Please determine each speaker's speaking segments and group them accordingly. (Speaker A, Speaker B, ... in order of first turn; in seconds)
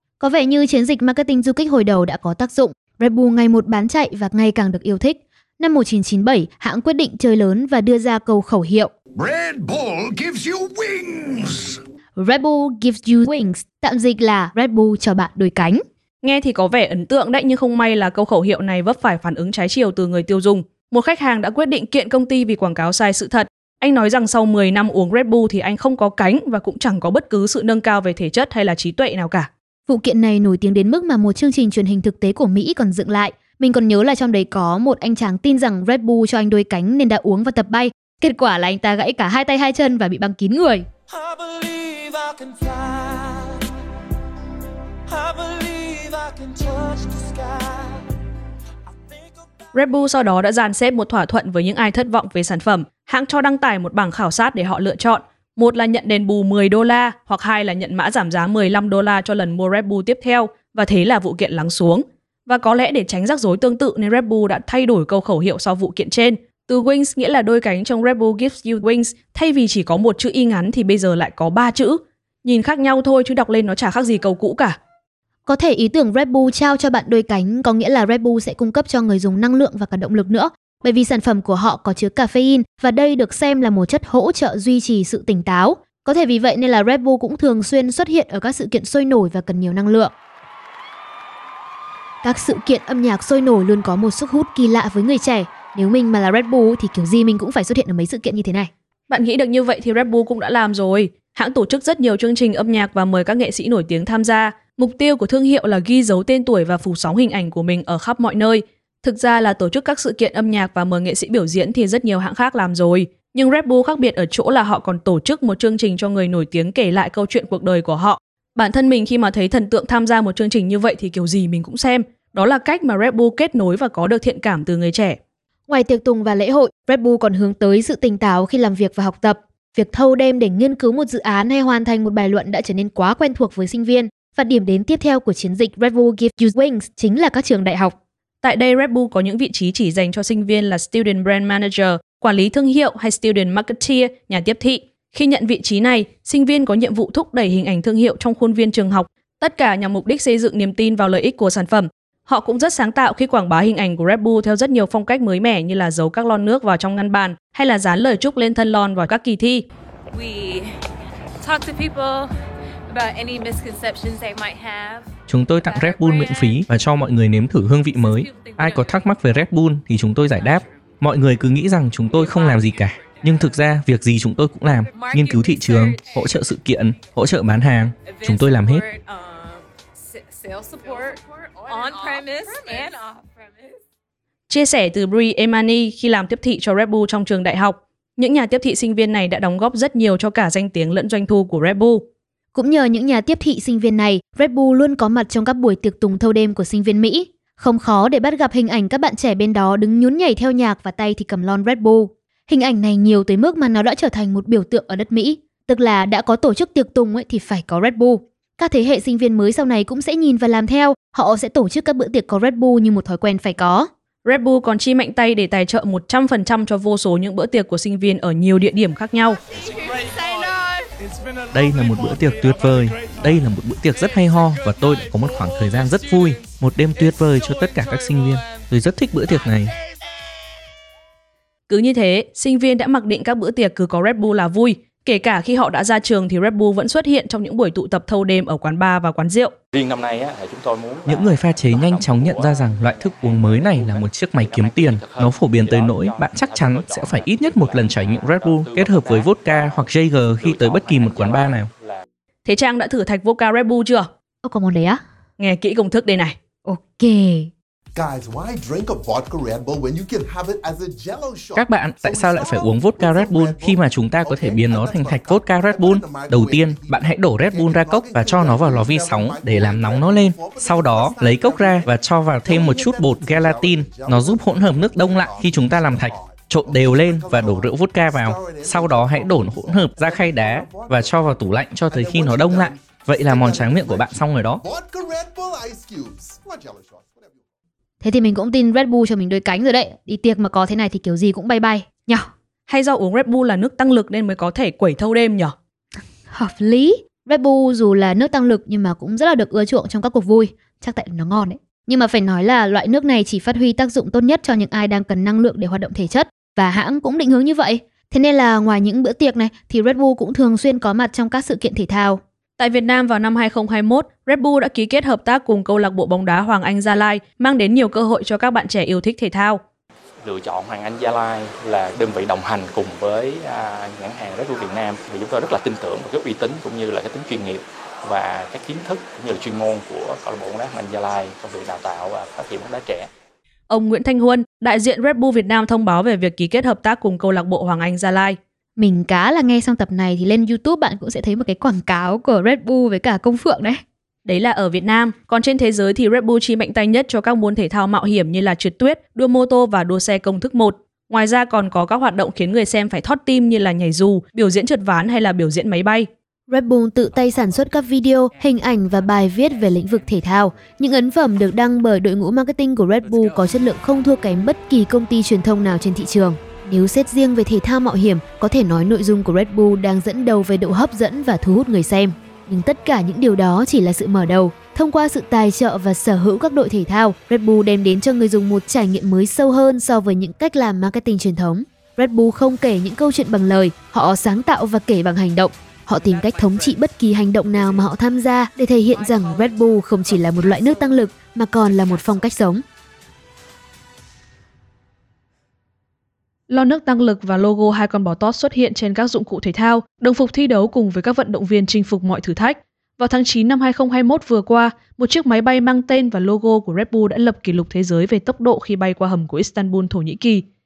Speaker A: 0.2-8.9, 12.2-15.8, 29.9-40.9, 75.5-90.1, 92.2-98.7, 125.7-138.0, 192.5-213.9, 254.4-255.0, 256.6-257.5, 288.0-292.3, 296.3-312.2, 338.8-343.8, 356.5-392.6
Speaker B: 9.2-11.8, 41.2-43.4, 45.1-47.6
Speaker C: 16.2-29.5, 49.7-74.8, 99.1-125.2, 138.4-159.7, 184.5-192.1, 214.2-219.4, 231.7-239.5, 252.5-254.1, 255.4-256.4, 292.7-295.5, 312.6-319.6, 333.7-338.4, 344.3-356.1, 396.5-410.4
Speaker D: 160.1-160.8, 161.4-162.3, 162.9-165.1, 165.6-166.6, 167.9-169.0, 172.3-173.3, 174.9-176.2, 178.1-183.7
Speaker E: 165.3-178.9, 221.5-229.7, 241.1-251.7, 261.6-284.6
Speaker F: 239.7-252.1, 320.2-333.1
Speaker G: 257.9-287.4